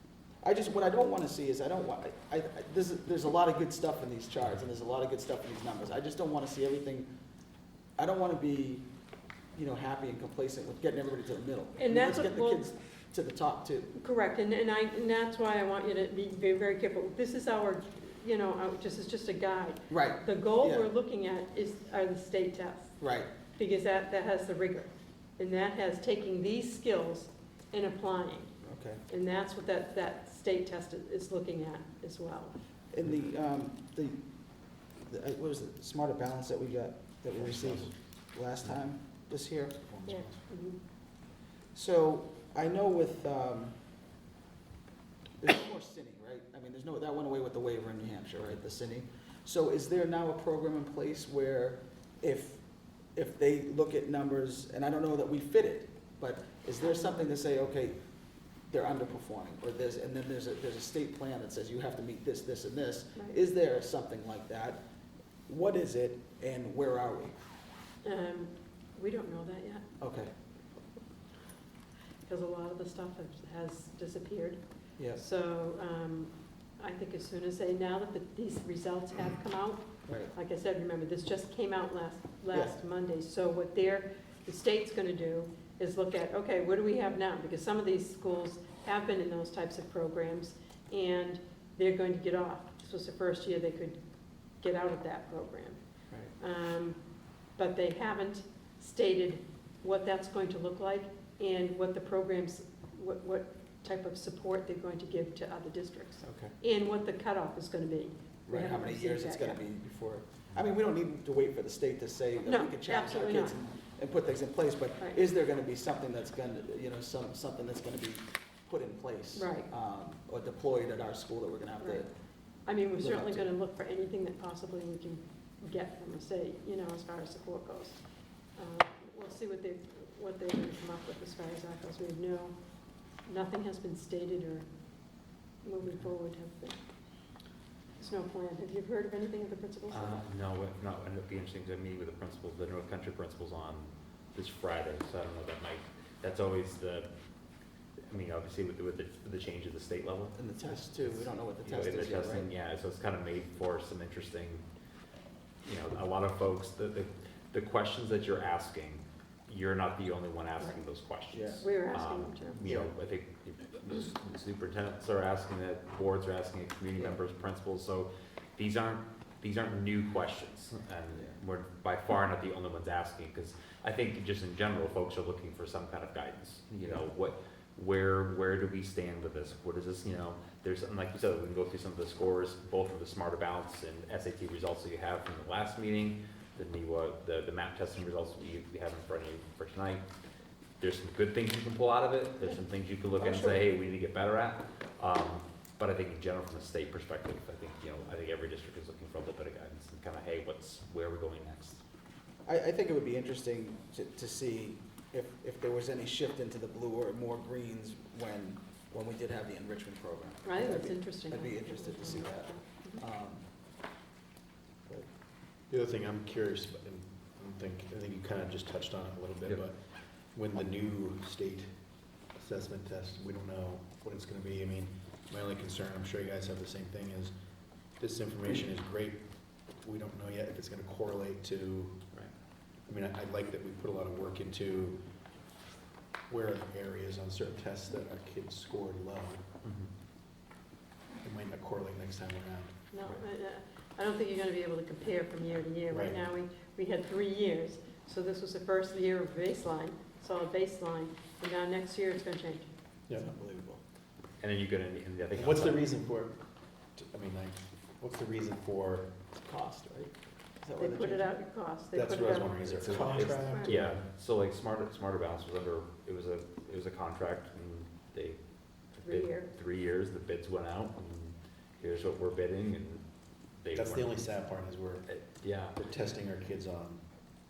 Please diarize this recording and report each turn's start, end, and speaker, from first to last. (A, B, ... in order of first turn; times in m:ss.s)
0:00.4-0:07.1 A
0:08.0-0:08.9 A
0:09.5-0:14.0 A
0:11.8-0:12.6 B
0:14.0-0:23.0 B
0:19.9-0:20.9 A
0:23.0-0:23.3 A
0:23.6-0:28.6 B
0:28.6-0:29.0 A
0:29.1-0:32.6 B
0:32.9-0:39.8 A
0:37.4-0:37.9 C
0:39.8-0:40.4 C
0:40.1-0:40.8 B
0:41.7-0:43.8 A
0:45.4-0:58.1 A
0:56.8-0:57.2 B
0:58.7-1:04.8 A
1:05.5-1:07.4 A
1:08.0-1:09.8 B
1:10.0-1:10.3 A
1:12.3-1:14.6 B
1:15.0-1:15.2 A
1:15.2-1:34.0 B
1:20.1-1:20.3 A
1:22.5-1:22.8 A
1:34.6-1:35.8 B
1:36.4-1:37.0 B
1:37.6-1:49.6 B
1:46.2-1:46.6 A
1:48.5-2:02.1 A
1:52.4-1:53.6 B
1:59.4-1:59.7 B
2:01.8-2:02.1 B
2:02.7-2:08.0 B
2:03.0-2:03.5 A
2:08.6-2:12.6 B
2:13.3-2:14.7 B
2:15.6-2:16.8 B
2:18.0-2:20.2 B
2:19.9-2:27.1 D
2:28.1-2:34.6 D
2:30.4-2:32.5 A
2:35.6-3:10.0 D
2:41.3-2:41.7 A
2:41.6-2:42.6 B
2:42.6-2:43.0 A
3:10.8-3:21.8 D
3:13.2-3:13.6 A
3:22.5-3:33.5 A
3:30.4-3:33.0 B
3:35.7-3:47.4 C
3:48.0-3:52.1 C
3:52.9-3:55.0 C
3:56.3-3:59.5 C
3:59.6-3:59.9 D
4:01.2-4:02.8 C
4:02.9-4:12.7 B
4:05.9-4:06.2 C
4:13.1-4:13.8 A
4:14.4-4:15.8 D
4:15.3-4:19.1 C
4:19.4-4:21.3 A
4:20.8-4:23.8 B
4:21.9-4:24.0 C
4:22.7-4:23.3 A
4:22.8-4:28.4 D
4:28.9-4:33.0 D
4:29.0-4:29.5 B
4:33.6-4:34.2 D
4:33.7-4:35.1 C
4:35.1-4:35.8 D
4:35.7-4:37.0 C